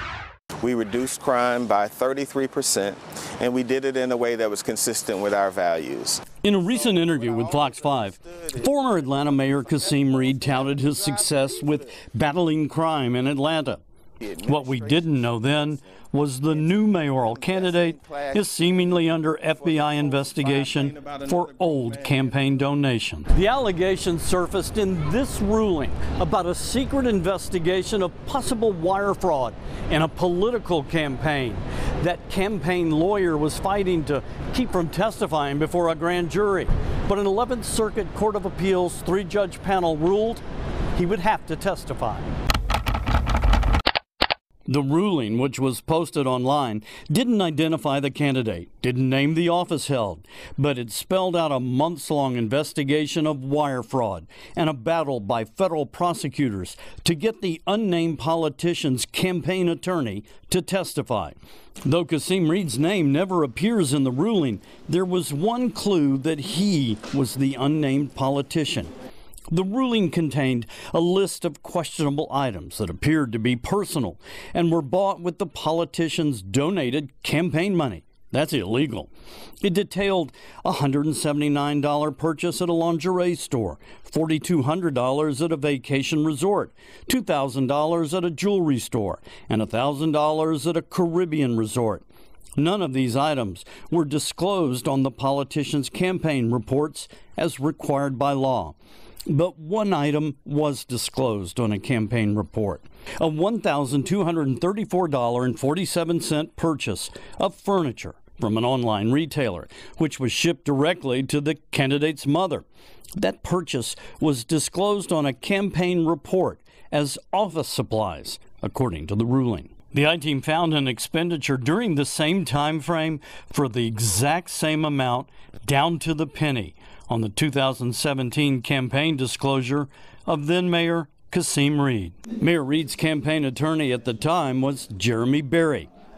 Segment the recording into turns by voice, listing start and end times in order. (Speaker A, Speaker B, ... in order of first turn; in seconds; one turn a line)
Speaker A: 0.6-11.9
Speaker B: 6.4-13.8
Speaker A: 14.2-15.9
Speaker B: 14.4-40.4
Speaker A: 16.5-22.6
Speaker B: 40.9-42.3
Speaker B: 44.6-68.9
Speaker B: 69.5-79.1
Speaker B: 79.6-92.0
Speaker B: 92.6-98.7
Speaker B: 99.3-112.6
Speaker B: 113.2-135.9